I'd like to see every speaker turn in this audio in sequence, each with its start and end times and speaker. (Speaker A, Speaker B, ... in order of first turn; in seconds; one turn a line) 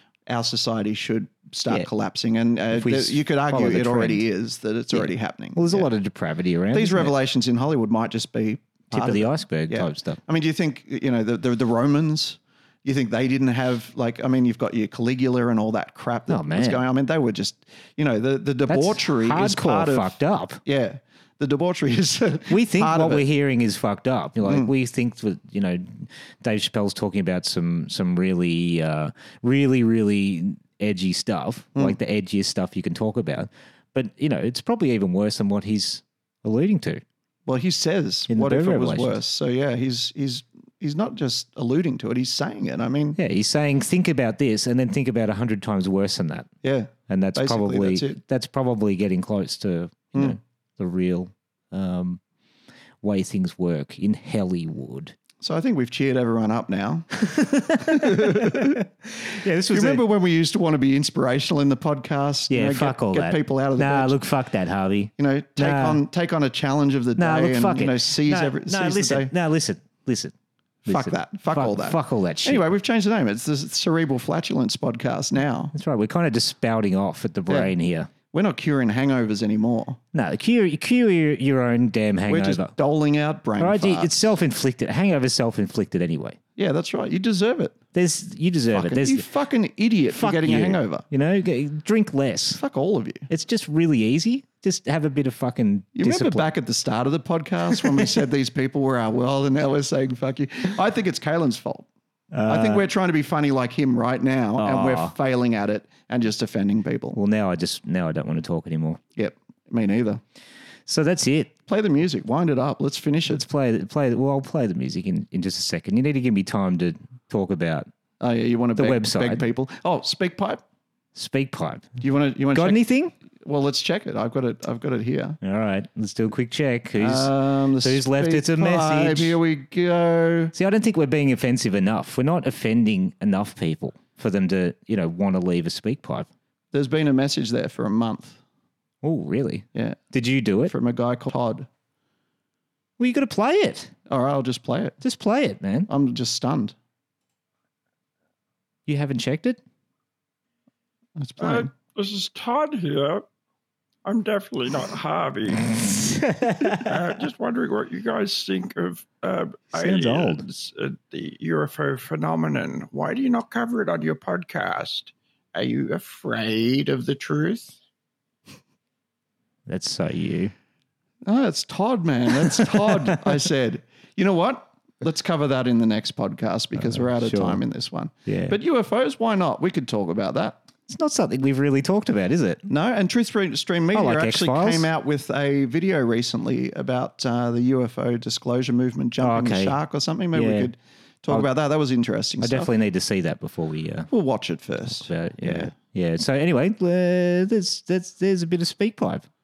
Speaker A: 0.3-5.9
Speaker B: 2.7-4.2
Speaker B: 4.9-7.1
Speaker A: 6.7-23.2
Speaker B: 8.9-10.2
Speaker B: 16.3-16.8
Speaker B: 18.7-20.6
Speaker B: 22.5-37.0
Speaker A: 24.4-24.7
Speaker A: 37.5-43.2
Speaker B: 38.3-39.2
Speaker B: 43.1-46.5
Speaker A: 46.6-48.2
Speaker B: 47.1-52.2
Speaker B: 53.0-55.1
Speaker A: 55.4-58.8
Speaker B: 57.2-60.0
Speaker A: 59.6-64.2
Speaker B: 62.5-66.0
Speaker A: 65.2-69.3
Speaker B: 67.2-70.3
Speaker B: 70.8-72.7
Speaker A: 70.8-75.7
Speaker B: 75.7-78.1
Speaker A: 77.5-77.7
Speaker A: 78.3-80.0
Speaker B: 80.1-82.7
Speaker A: 82.3-84.3
Speaker B: 83.6-86.4
Speaker A: 86.6-87.8
Speaker B: 87.9-89.2
Speaker A: 88.7-91.0
Speaker B: 90.1-92.6
Speaker A: 92.5-93.3
Speaker B: 93.3-96.5
Speaker A: 95.9-101.9
Speaker B: 102.3-102.8
Speaker A: 102.5-107.2
Speaker B: 104.6-105.1
Speaker B: 107.1-109.0
Speaker A: 109.2-110.2
Speaker B: 110.8-111.5
Speaker A: 111.7-113.4
Speaker B: 113.3-117.9
Speaker A: 118.2-120.6
Speaker B: 118.8-119.4
Speaker B: 121.1-121.9
Speaker A: 122.0-122.8
Speaker B: 122.5-123.1
Speaker A: 123.4-125.4
Speaker B: 125.4-129.4
Speaker A: 127.0-130.5
Speaker B: 130.5-136.3
Speaker A: 136.7-138.4
Speaker B: 139.0-140.7
Speaker A: 139.7-140.0
Speaker A: 140.7-141.7
Speaker B: 143.0-143.9
Speaker A: 144.1-144.9
Speaker B: 145.0-145.9
Speaker A: 145.9-146.7
Speaker B: 148.9-149.6
Speaker A: 151.2-151.7
Speaker C: 151.4-153.2
Speaker C: 154.0-155.8
Speaker B: 156.2-156.9
Speaker C: 156.7-167.8
Speaker B: 159.7-160.4
Speaker B: 169.7-170.5
Speaker A: 171.2-180.6
Speaker B: 176.8-177.6
Speaker B: 178.2-178.6
Speaker B: 180.9-182.7
Speaker A: 182.7-192.7
Speaker B: 183.9-184.9
Speaker B: 189.2-189.8
Speaker B: 190.3-190.7
Speaker B: 192.4-194.1
Speaker A: 194.1-195.7
Speaker B: 195.0-199.3